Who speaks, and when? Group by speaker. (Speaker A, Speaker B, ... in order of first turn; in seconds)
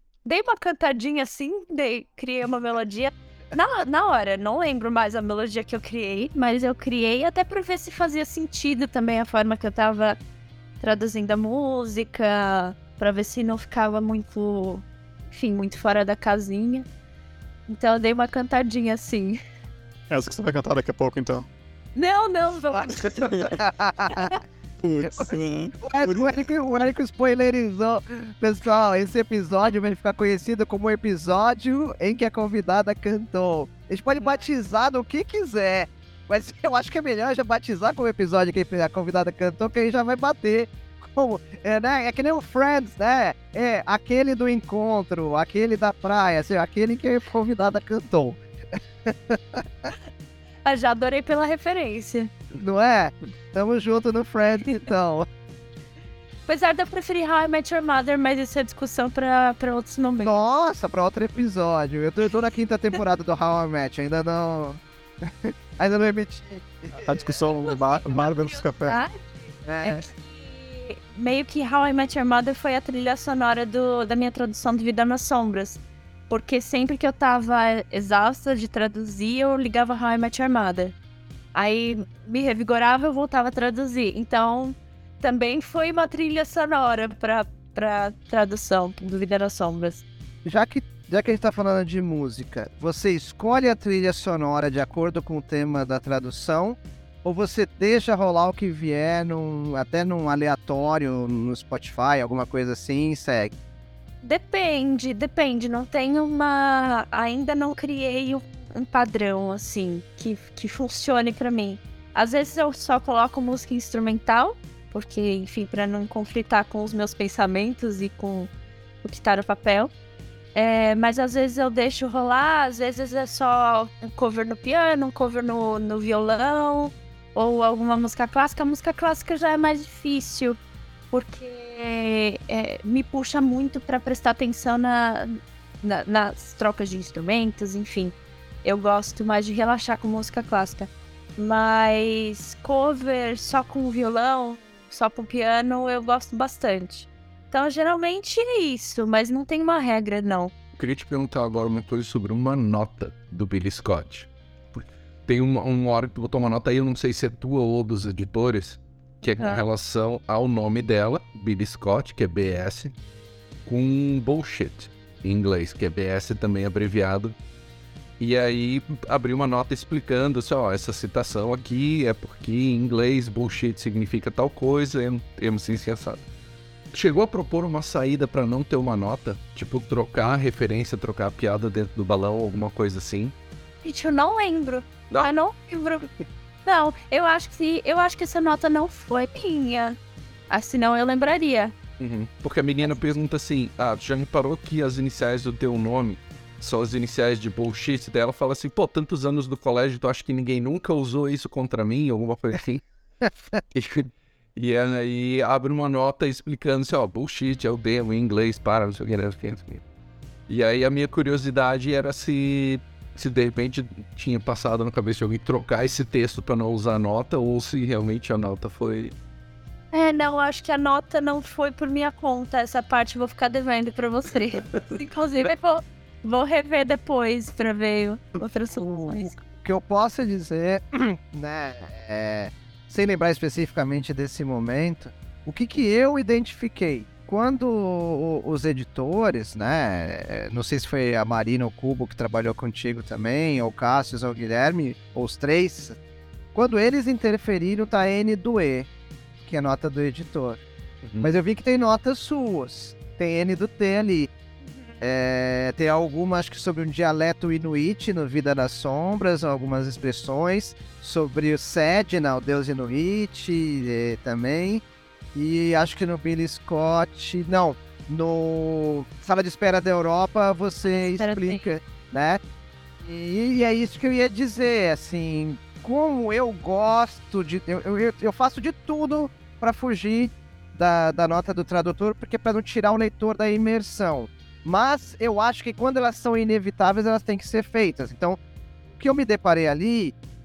Speaker A: 0.2-10.2, 10.8-16.9, 17.7-19.4, 21.9-23.5, 50.6-52.3, 56.5-60.3, 68.8-80.9, 81.5-90.0, 104.2-118.5, 119.0-119.9, 120.5-130.6, 131.1-150.5, 159.4-159.6, 183.8-186.1, 186.7-190.0, 190.5-191.8, 219.9-229.4, 271.0-271.6
Speaker B: 20.1-21.5, 24.8-26.3, 67.0-69.0
Speaker C: 23.3-24.3, 25.0-48.4, 49.0-49.9, 52.5-55.3, 60.2-67.1, 69.6-70.0, 90.4-103.5, 228.8-246.0, 246.5-248.9, 249.4-250.6, 251.2-254.3, 255.0-264.8, 265.3-272.4, 273.0-288.4, 288.9-290.1
Speaker D: 150.8-162.9, 163.7-167.3, 168.2-176.2, 176.9-183.3, 192.0-202.8, 203.7-209.8, 210.5-219.1, 251.0-251.3